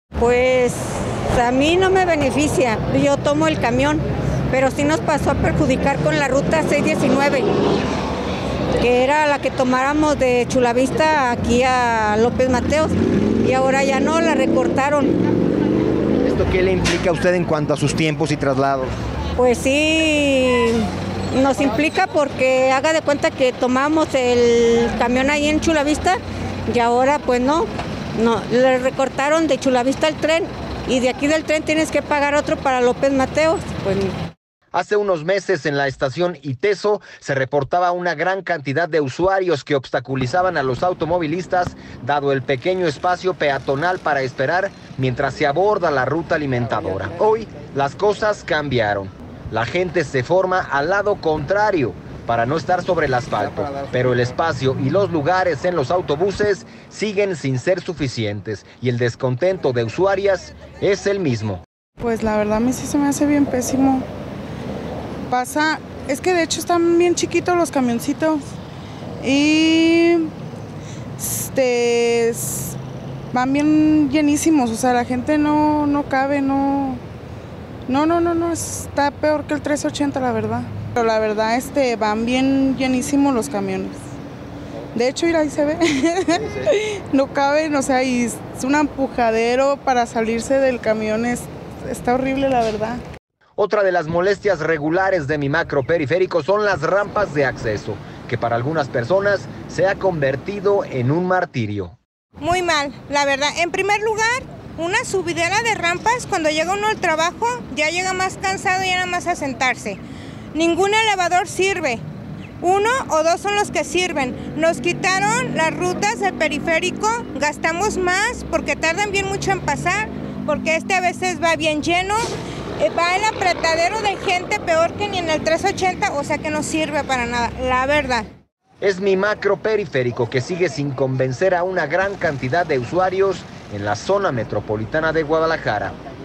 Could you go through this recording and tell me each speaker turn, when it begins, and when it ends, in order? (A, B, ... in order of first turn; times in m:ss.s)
0:00.2-0:07.5 A
0:08.8-0:15.2 A
0:16.2-0:18.9 B
0:19.4-0:34.1 A
0:34.7-1:01.6 B
1:02.0-1:04.0 C
1:05.3-1:08.4 C
1:09.2-1:10.3 C
1:11.2-1:12.8 C
1:13.3-1:17.0 C
1:17.9-1:24.0 C
1:24.9-1:33.0 C
1:33.6-1:42.0 B
1:42.4-1:50.0 D
1:50.5-1:52.0 D
1:52.6-2:02.2 D
2:02.8-2:08.3 D
2:08.8-2:15.9 B